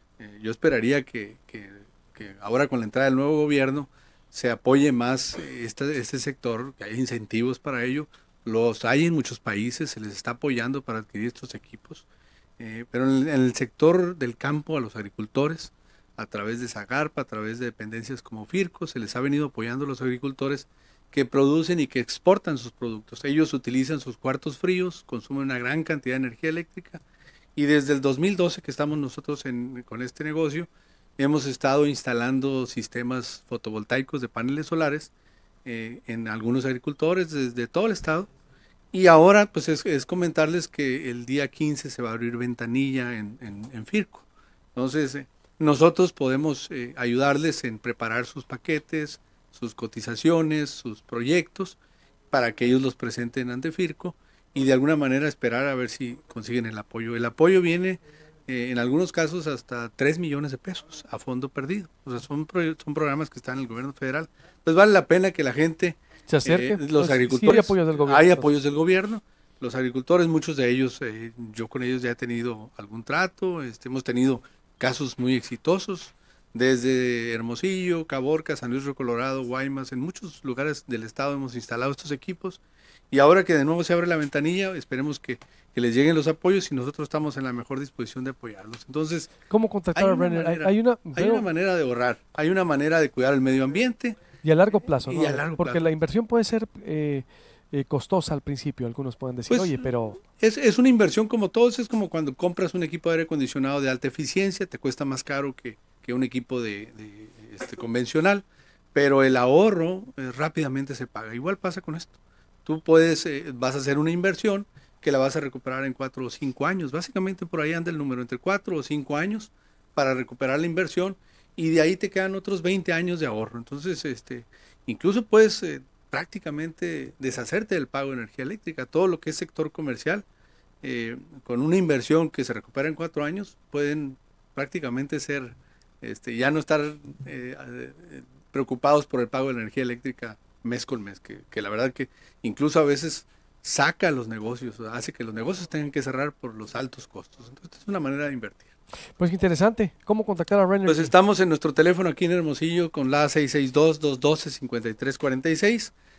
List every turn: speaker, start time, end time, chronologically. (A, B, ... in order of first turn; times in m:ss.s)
0:00.2-0:12.1 A
0:12.6-0:27.0 A
0:27.6-0:35.1 A
0:35.6-0:38.3 A
0:38.9-0:51.8 A
0:52.3-1:29.3 A
1:06.3-1:08.5 B
1:29.5-1:31.4 B
1:29.9-1:34.2 A
1:34.4-1:40.2 B
1:35.0-1:35.8 A
1:39.5-1:39.8 A
1:40.4-2:10.2 A
2:10.8-2:28.7 A
2:29.2-2:31.1 B
2:30.8-2:35.9 A